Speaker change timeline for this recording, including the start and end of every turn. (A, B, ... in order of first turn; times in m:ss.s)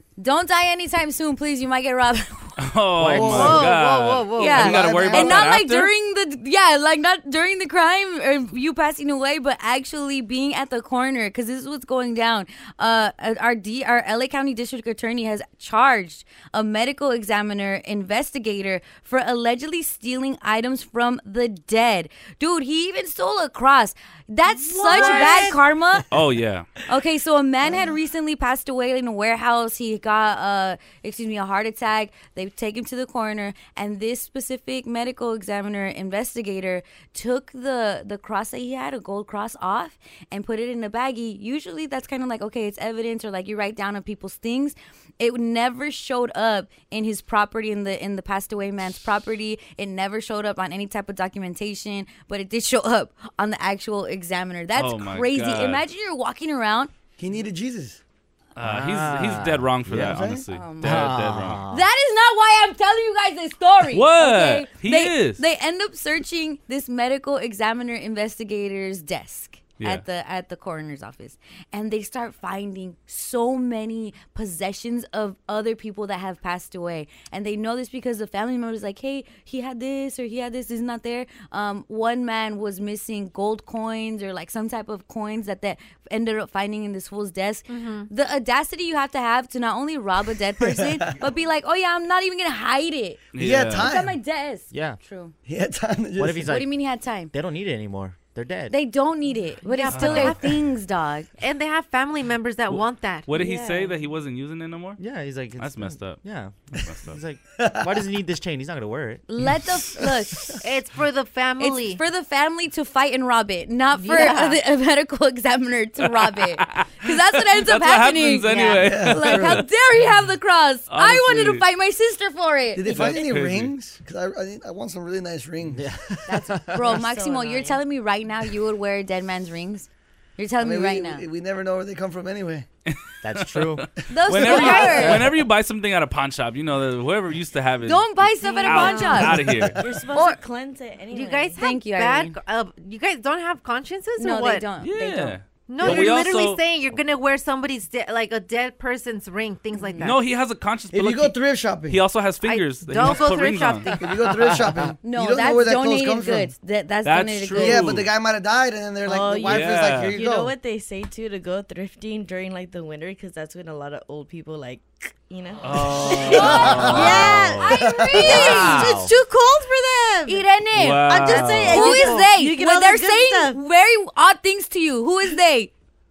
0:00.2-0:02.6 A
0:02.6-0:05.9 B
0:03.0-0:03.7 C
0:03.2-0:03.6 D
0:03.2-0:04.7 E
0:04.4-0:26.1 A
0:04.5-0:05.5 D
0:24.5-0:25.6 E
0:26.1-0:26.7 B
0:26.9-0:56.9 A
0:54.8-0:55.8 B
0:57.2-0:58.0 D
0:58.6-1:01.6 B
0:58.6-1:00.1 C
0:59.9-1:00.4 D
1:00.5-1:01.1 A
1:00.8-1:01.9 C
1:01.7-1:33.2 A
1:03.9-1:05.4 B
1:27.7-1:28.1 E
1:30.6-1:31.2 D
1:33.3-1:33.9 B
1:33.4-1:34.2 D
1:33.8-1:35.3 A
1:34.7-1:35.0 C
1:35.5-1:36.6 D
1:36.2-1:36.7 C
1:36.4-1:37.3 A
1:37.3-1:38.8 C
1:38.7-1:41.3 A
1:39.7-1:40.6 E
1:39.9-1:40.5 B
1:41.4-1:43.3 E
1:42.7-1:45.0 B
1:43.4-1:44.0 F
1:45.0-1:46.6 C
1:45.6-1:46.2 B
1:46.8-1:47.2 B
1:47.1-1:49.2 C
1:49.3-1:50.6 A
1:50.6-1:52.0 E
1:51.6-2:03.2 A
1:54.0-1:54.6 E
1:56.2-1:59.6 B
1:58.4-1:58.9 E
1:58.8-1:59.7 D
2:00.9-2:01.6 B
2:02.8-2:05.9 D
2:02.9-2:03.7 B
2:05.7-2:07.0 C
2:06.3-2:11.2 A
2:07.0-2:07.8 F
2:10.6-2:12.7 D
2:12.9-2:19.8 B
2:13.2-2:13.8 C
2:14.1-2:15.2 A
2:14.5-2:15.3 C
2:14.7-2:15.0 E
2:17.9-2:19.4 A
2:18.6-2:19.3 E
2:19.5-2:19.8 D
2:19.8-2:21.6 F
2:20.1-2:20.4 A
2:21.1-2:24.7 E
2:21.6-2:22.4 A
2:24.2-2:25.4 A
2:24.8-2:26.7 B
2:25.7-2:30.2 E
2:29.7-2:30.1 A
2:30.0-2:34.0 B
2:30.9-2:32.0 D
2:32.4-2:34.3 E
2:34.0-2:36.5 D
2:35.0-2:37.9 A
2:37.0-2:38.1 B
2:37.6-2:40.5 D
2:39.0-2:50.4 F
2:39.5-2:40.2 B
2:45.6-2:47.8 B
2:45.7-2:48.3 D
2:46.2-2:49.0 A
2:48.2-2:49.1 C
2:50.3-2:55.7 A
2:50.7-2:52.2 B
2:51.0-2:53.6 F